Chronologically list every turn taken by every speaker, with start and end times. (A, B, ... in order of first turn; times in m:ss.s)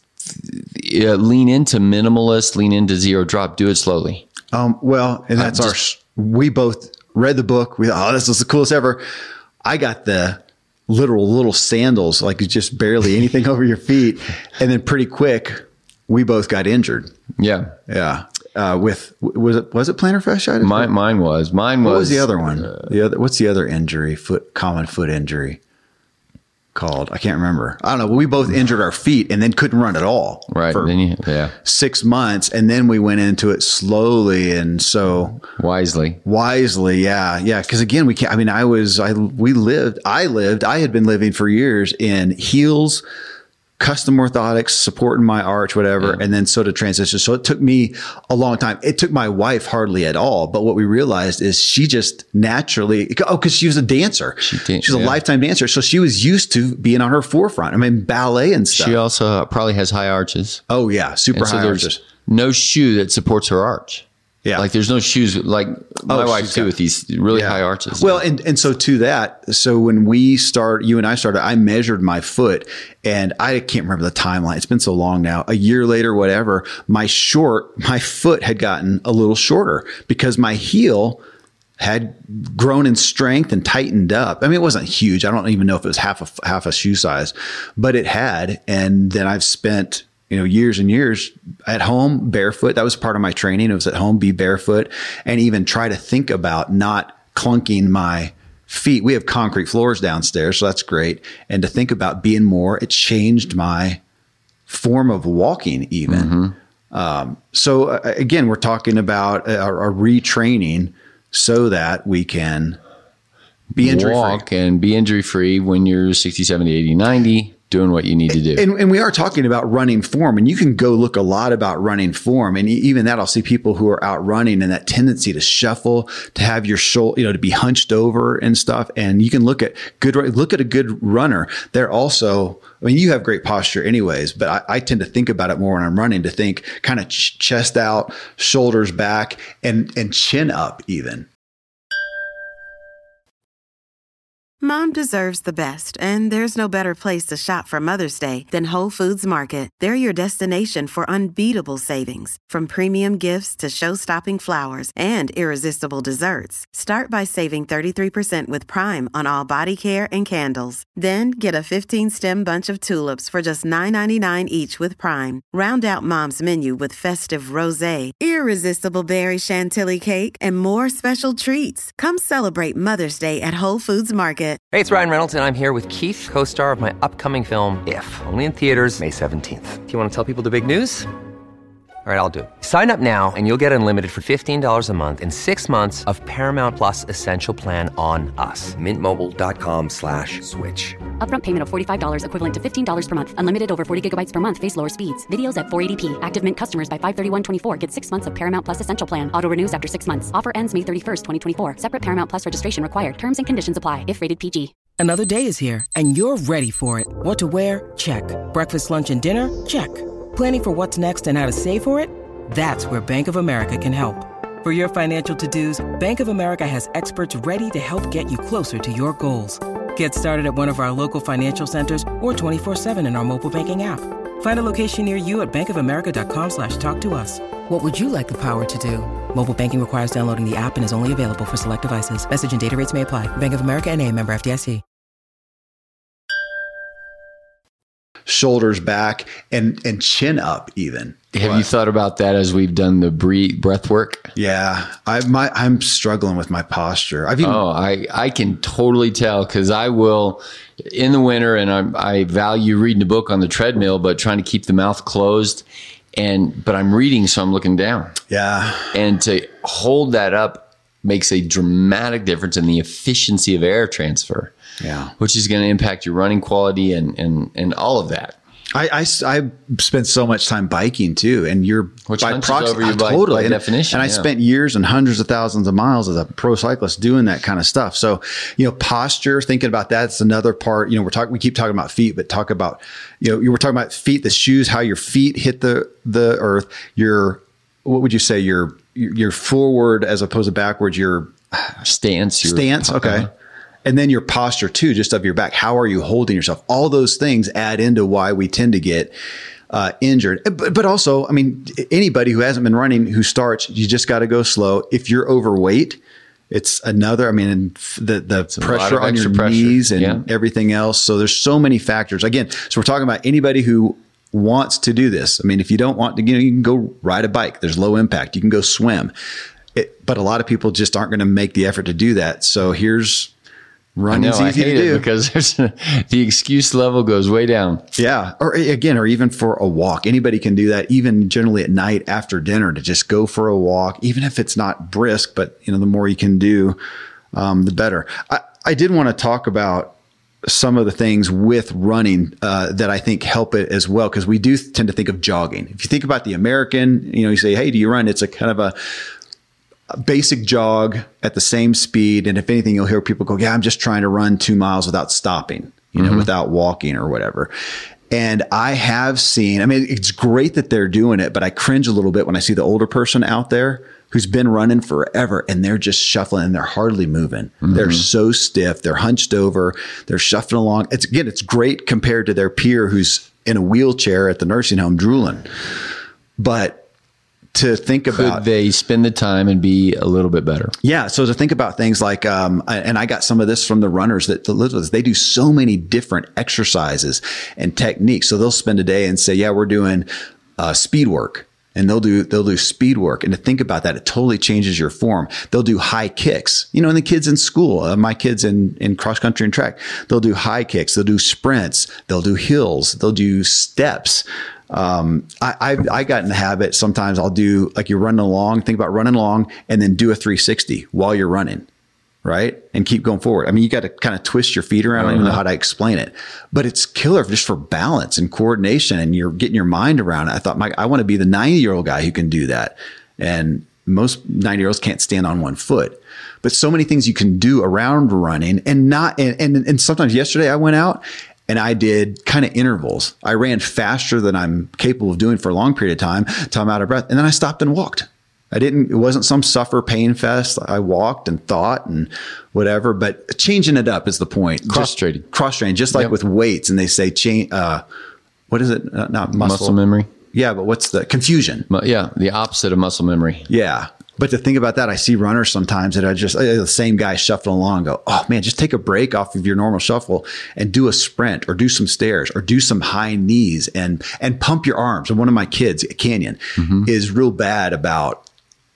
0:00.3-0:04.3 A
0:04.5-0:09.0 B
0:05.4-0:05.8 A
0:09.6-0:17.1 B
0:17.4-0:17.8 A
0:17.9-0:20.9 B
0:20.6-0:22.9 A
0:21.8-0:25.6 B
0:26.8-0:30.9 B
0:30.5-0:31.6 A
0:31.6-0:35.4 B
0:35.6-0:36.2 A
0:36.2-0:43.0 B
0:43.8-0:59.0 B
0:54.4-0:55.2 A
0:58.7-1:00.6 A
1:00.7-1:02.0 B
1:01.3-1:08.2 A
1:06.1-1:06.7 B
1:07.3-1:21.2 B
1:21.8-1:44.0 B
1:44.7-1:46.4 B
1:46.1-1:46.6 A
1:46.9-1:52.8 B
1:53.8-1:58.7 A
1:53.8-1:54.4 B
1:58.3-2:21.3 B
2:24.6-2:54.6 C
2:54.7-3:01.1 D
3:02.1-3:11.0 D
3:11.1-3:24.7 E
3:25.0-3:54.8 F
3:58.3-4:01.7 B
4:01.3-4:04.3 A
4:04.4-4:07.6 B
4:07.4-4:15.6 A
4:16.2-4:18.2 A
4:18.3-4:18.9 B
4:18.9-4:24.5 A
4:24.8-4:25.1 B
4:25.2-4:28.4 A
4:28.7-4:51.9 B
4:32.1-4:34.3 A
4:51.8-4:53.3 A
4:52.4-4:53.3 B
4:53.8-4:59.1 B
4:59.7-5:06.0 B
5:06.5-5:19.1 B
5:08.5-5:10.2 A
5:19.8-5:23.3 B
5:24.0-5:25.1 B
5:24.1-5:27.8 A
5:28.0-5:36.8 B
5:37.3-5:40.0 B
5:40.5-5:48.8 B
5:49.9-5:57.5 B
5:56.0-5:56.3 A
5:58.1-6:15.5 B
6:07.6-6:08.0 A
6:16.4-6:16.9 B
6:17.6-6:18.4 B
6:18.1-6:20.7 A
6:20.8-6:51.7 B
6:52.2-7:27.8 B
6:55.0-6:55.4 A
7:24.6-7:25.3 A
7:28.5-7:29.8 B
7:29.4-7:30.1 A
7:30.3-7:31.7 B
7:31.7-7:33.5 A
7:33.5-7:48.2 B
7:46.6-7:46.9 A